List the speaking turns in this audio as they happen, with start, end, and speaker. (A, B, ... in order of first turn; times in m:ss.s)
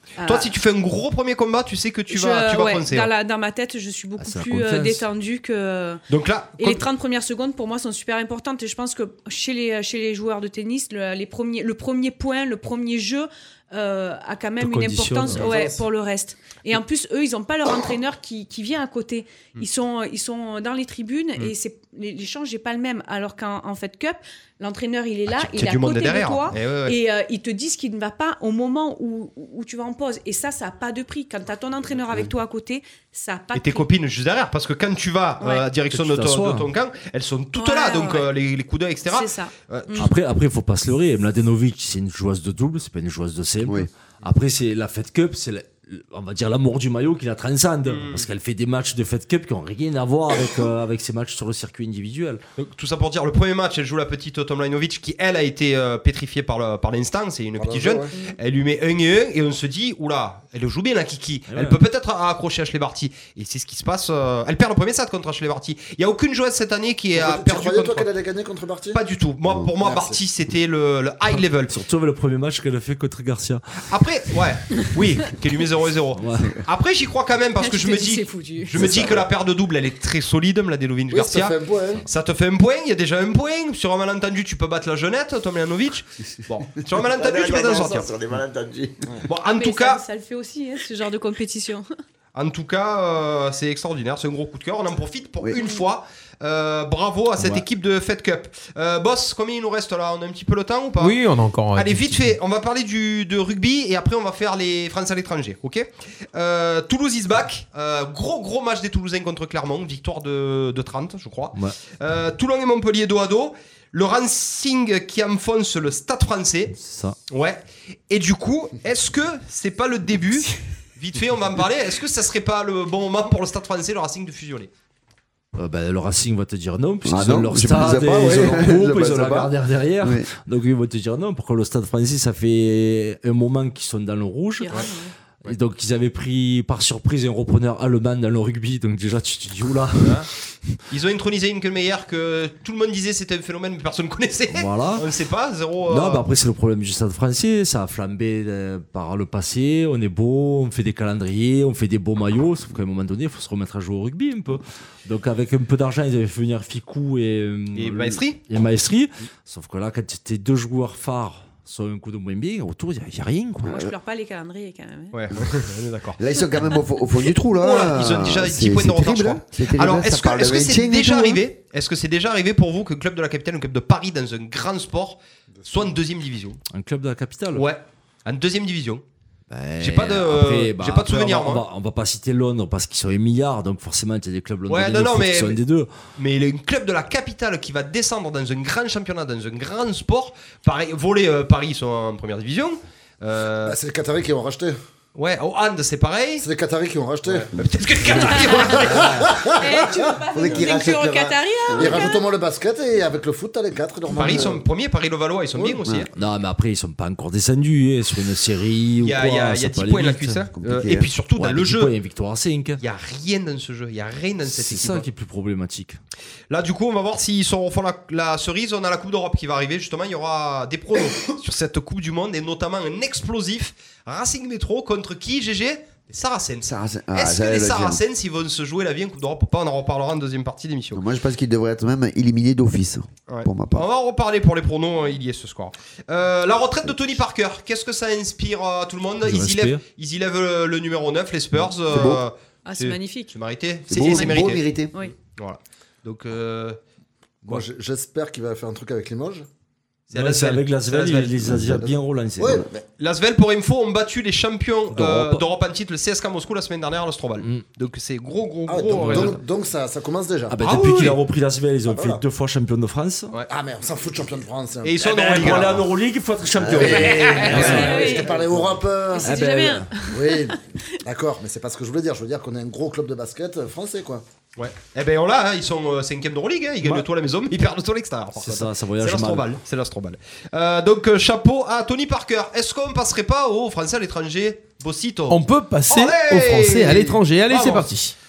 0:00.2-0:00.5 A
0:00.2-0:03.1 B
0:02.1-0:06.0 A
0:04.2-0:05.0 C
0:06.1-0:06.9 B
0:06.6-0:33.9 A
0:14.6-0:15.5 C
0:15.4-0:15.8 D
0:25.3-0:27.0 B
0:33.5-0:40.1 B
0:35.4-0:35.7 A
0:35.9-0:36.7 C
0:37.6-0:38.3 A
0:39.1-0:40.1 A
0:40.0-0:52.4 C
0:43.6-0:43.9 E
0:47.9-0:48.3 B
0:52.6-1:08.1 B
0:57.6-0:58.1 D
1:01.5-1:01.8 C
1:07.1-1:09.0 D
1:08.9-1:11.8 B
1:09.8-1:10.2 D
1:11.3-1:13.8 C
1:13.9-1:28.1 B
1:16.2-1:16.5 C
1:17.6-1:18.9 A
1:18.8-1:19.2 E
1:21.1-1:22.0 D
1:27.0-1:29.1 E
1:29.3-1:30.0 B
1:29.6-1:31.9 A
1:32.4-1:41.2 B
1:37.4-1:37.6 C
1:41.0-1:42.3 F
1:41.7-1:56.8 B
1:56.8-1:57.2 C
1:57.3-2:04.7 B
2:05.6-2:14.8 C
2:07.0-2:10.3 E
2:14.6-2:15.1 A
2:15.4-2:20.2 C
2:20.0-2:20.3 B
2:20.9-2:26.2 B
2:24.5-2:25.1 C
2:25.9-2:43.8 C
2:37.8-2:38.4 B
2:43.7-2:45.2 A
2:45.1-2:46.2 B
2:46.2-2:51.4 E
2:47.6-2:56.6 B
2:56.7-2:57.7 C
2:57.6-2:59.0 B
2:59.5-3:05.9 C
2:59.8-3:01.6 B
3:04.7-3:05.6 B
3:06.2-3:13.8 B
3:13.6-3:14.8 D
3:15.2-3:16.5 B
3:16.4-3:17.5 D
3:17.2-3:19.2 B
3:18.0-3:20.6 D
3:18.2-3:18.9 A
3:19.6-3:22.2 A
3:20.3-3:22.1 E
3:21.8-3:24.6 D
3:24.1-3:26.1 B
3:25.6-3:25.8 D
3:26.2-3:30.5 C
3:29.0-3:31.9 B
3:30.6-3:31.1 E
3:31.4-3:32.8 C
3:32.8-3:35.1 B
3:34.5-3:36.0 C
3:36.5-3:51.0 B
3:46.7-3:48.0 E
3:50.9-3:53.9 E
3:53.3-4:06.8 B
3:59.2-3:59.8 C
4:01.9-4:02.2 E
4:02.7-4:03.4 A
4:03.9-4:04.9 E
4:04.0-4:05.2 A
4:07.4-4:09.5 D
4:10.1-4:11.4 B
4:10.1-4:12.6 C
4:11.7-4:12.9 D
4:13.0-4:19.4 B
4:14.9-4:15.4 C
4:18.7-4:20.8 D
4:18.9-4:19.4 C
4:20.5-4:23.3 C
4:20.6-4:21.2 B
4:21.9-4:22.2 D
4:23.5-4:25.0 D
4:24.8-4:25.9 B
4:25.0-4:28.1 C
4:26.6-4:27.6 E
4:26.8-4:28.1 B
4:26.8-4:29.3 D
4:27.6-4:28.4 A
4:29.1-4:30.6 A
4:29.2-4:29.9 C
4:30.1-4:34.2 D
4:34.6-4:47.9 B
4:38.4-4:39.5 C
4:45.3-4:48.2 F